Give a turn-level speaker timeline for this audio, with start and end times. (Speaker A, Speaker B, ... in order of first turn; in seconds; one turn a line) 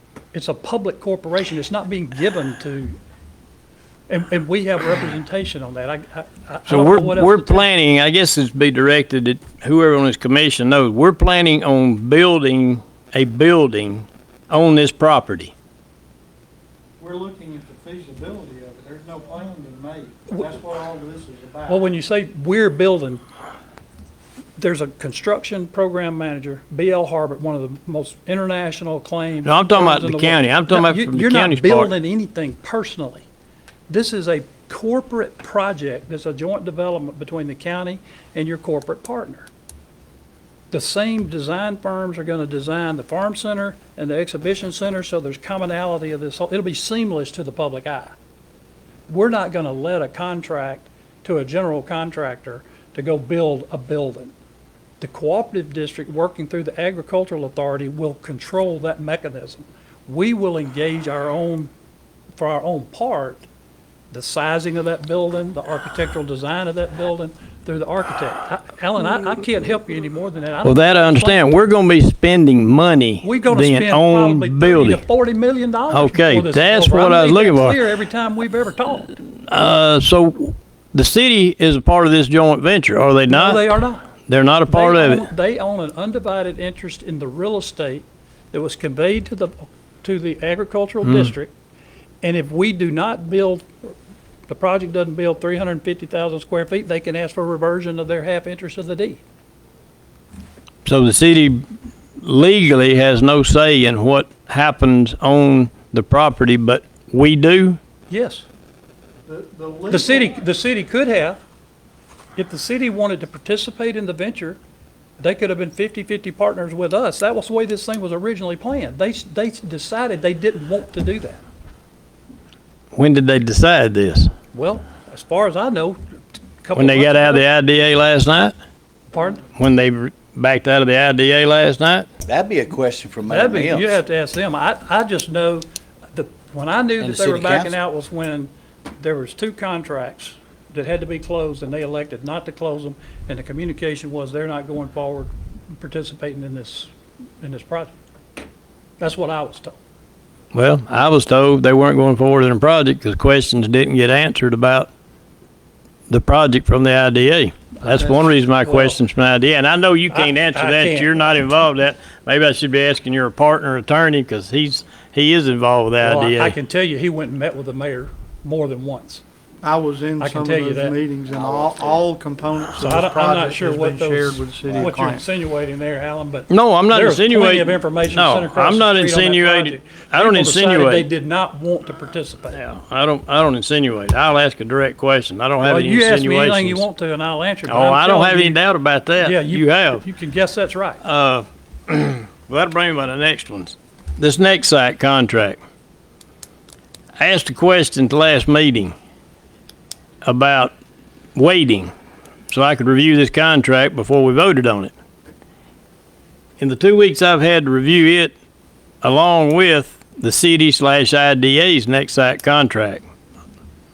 Speaker A: 0.3-3.0
Speaker A: 4.1-7.7
Speaker B: 6.7-15.5
Speaker C: 17.0-21.9
Speaker A: 21.7-23.2
Speaker A: 24.6-33.2
Speaker B: 29.4-31.9
Speaker A: 33.9-39.5
Speaker A: 40.7-48.1
Speaker A: 49.1-54.3
Speaker A: 55.0-61.7
Speaker A: 62.4-63.4
Speaker A: 64.1-71.6
Speaker B: 70.6-75.0
Speaker A: 73.2-79.1
Speaker B: 75.9-77.8
Speaker B: 79.5-83.8
Speaker A: 83.3-84.1
Speaker B: 84.3-85.2
Speaker A: 84.7-91.5
Speaker A: 92.2-93.7
Speaker A: 94.5-99.2
Speaker B: 100.8-101.7
Speaker B: 102.2-107.8
Speaker A: 108.1-108.4
Speaker C: 109.2-110.4
Speaker A: 109.9-111.4
Speaker A: 112.3-114.6
Speaker A: 115.2-121.4
Speaker B: 122.9-124.3
Speaker A: 124.5-126.0
Speaker A: 126.6-127.4
Speaker B: 126.7-128.5
Speaker A: 129.1-129.4
Speaker B: 129.5-132.1
Speaker D: 132.2-134.0
Speaker A: 133.3-147.9
Speaker D: 137.0-137.8
Speaker A: 149.0-149.8
Speaker B: 150.5-154.9
Speaker B: 156.1-166.6
Speaker A: 157.8-159.0
Speaker A: 160.1-161.1
Speaker A: 166.0-169.2
Speaker C: 169.6-175.2
Speaker A: 170.2-170.9
Speaker D: 171.3-172.0
Speaker A: 172.8-182.6
Speaker D: 174.7-174.9
Speaker B: 176.5-181.1
Speaker B: 182.5-186.8
Speaker A: 185.6-188.6
Speaker B: 187.7-190.0
Speaker A: 189.2-191.0
Speaker B: 191.0-195.6
Speaker B: 197.2-198.9
Speaker B: 200.2-200.7
Speaker B: 201.3-201.9
Speaker B: 202.5-204.9
Speaker B: 206.6-208.3
Speaker B: 209.0-213.0